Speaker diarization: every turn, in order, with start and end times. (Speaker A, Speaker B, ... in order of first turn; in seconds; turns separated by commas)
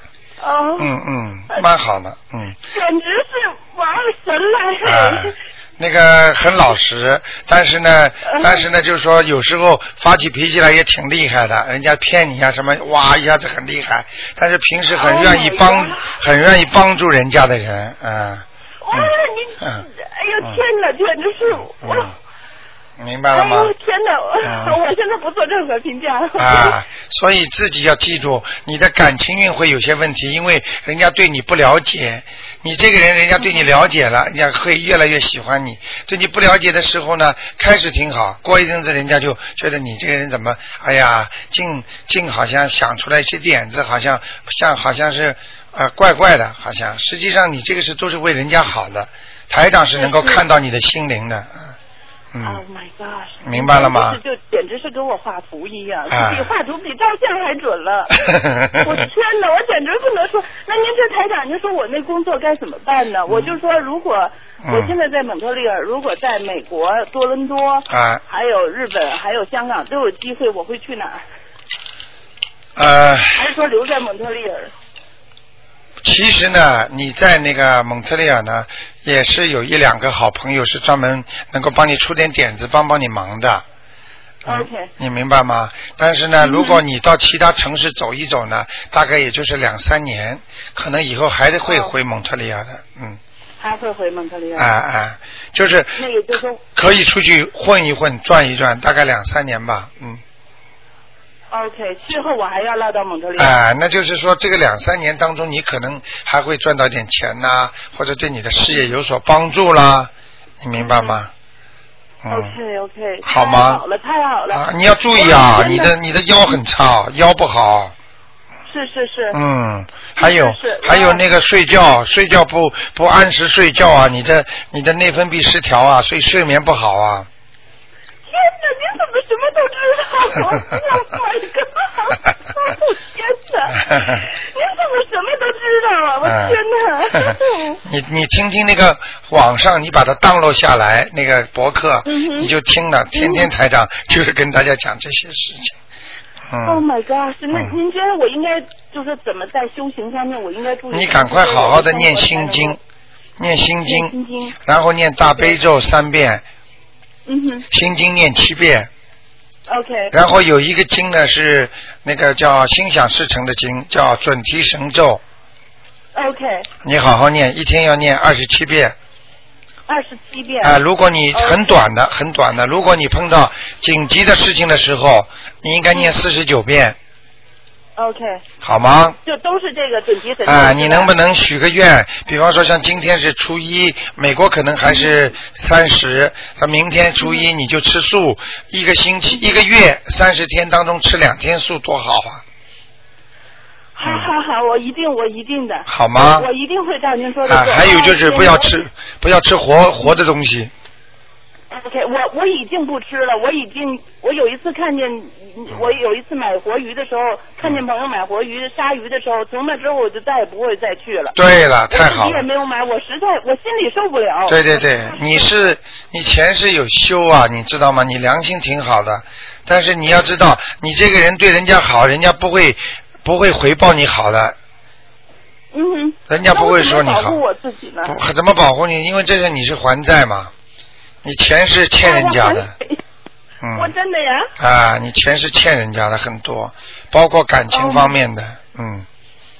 Speaker A: 0.4-0.9, Speaker B: 0.8-2.6, Speaker A: 2.7-5.4, Speaker B: 4.8-19.9, Speaker A: 8.2-8.7, Speaker A: 14.9-16.1, Speaker A: 18.8-22.1, Speaker B: 21.8-22.1, Speaker B: 23.0-23.7, Speaker A: 23.3-26.8, Speaker B: 24.4-24.8, Speaker B: 26.4-51.7, Speaker A: 50.0-50.4, Speaker B: 52.3-52.6, Speaker A: 52.4-58.2, Speaker B: 53.5-54.2, Speaker B: 56.1-56.5, Speaker B: 58.1-59.1, Speaker A: 58.8-71.2, Speaker B: 63.3-63.5, Speaker B: 64.6-64.9, Speaker B: 67.9-68.2, Speaker B: 72.8-73.4, Speaker A: 73.3-74.7, Speaker B: 76.0-83.7, Speaker B: 84.4-93.2, Speaker A: 84.5-84.9, Speaker A: 86.4-86.8, Speaker A: 91.7-91.9, Speaker A: 93.6-94.7, Speaker B: 94.6-96.0, Speaker A: 96.0-96.6, Speaker B: 96.8-100.2, Speaker A: 101.5-103.6, Speaker B: 103.4-111.3, Speaker A: 110.7-111.2, Speaker B: 112.2-112.5, Speaker A: 112.3-115.9, Speaker B: 113.2-113.8, Speaker B: 114.5-117.9, Speaker A: 118.7-119.4, Speaker B: 119.3-127.3, Speaker A: 120.2-121.2, Speaker A: 128.3-137.8, Speaker B: 130.4-130.8, Speaker B: 133.8-134.3, Speaker B: 136.2-136.6, Speaker B: 137.1-145.8, Speaker A: 142.1-142.5, Speaker A: 143.1-143.5, Speaker B: 146.5-146.8, Speaker A: 146.7-152.8, Speaker B: 150.9-152.8, Speaker B: 153.4-156.4, Speaker A: 153.8-154.6, Speaker A: 157.3-157.7, Speaker B: 157.7-158.9, Speaker A: 159.7-160.2, Speaker B: 160.1-165.2, Speaker A: 166.1-166.7, Speaker B: 166.8-169.0, Speaker A: 169.9-170.8, Speaker B: 170.6-177.0, Speaker A: 171.3-171.8, Speaker A: 178.0-178.4, Speaker B: 178.6-179.2, Speaker A: 179.2-181.1, Speaker B: 180.4-192.4, Speaker A: 184.8-185.2, Speaker A: 187.2-187.5, Speaker A: 189.3-189.6, Speaker A: 193.9-198.8, Speaker B: 194.0-194.3, Speaker B: 195.9-196.5, Speaker B: 197.4-200.7, Speaker A: 201.7-211.4, Speaker B: 211.3-212.4, Speaker A: 211.9-215.5, Speaker B: 214.5-224.6, Speaker A: 225.7-228.2, Speaker B: 226.3-227.4, Speaker B: 228.1-230.5, Speaker B: 231.2-232.7, Speaker A: 232.0-233.0, Speaker B: 233.6-233.9, Speaker A: 233.8-234.5, Speaker B: 234.6-239.1, Speaker A: 237.7-238.2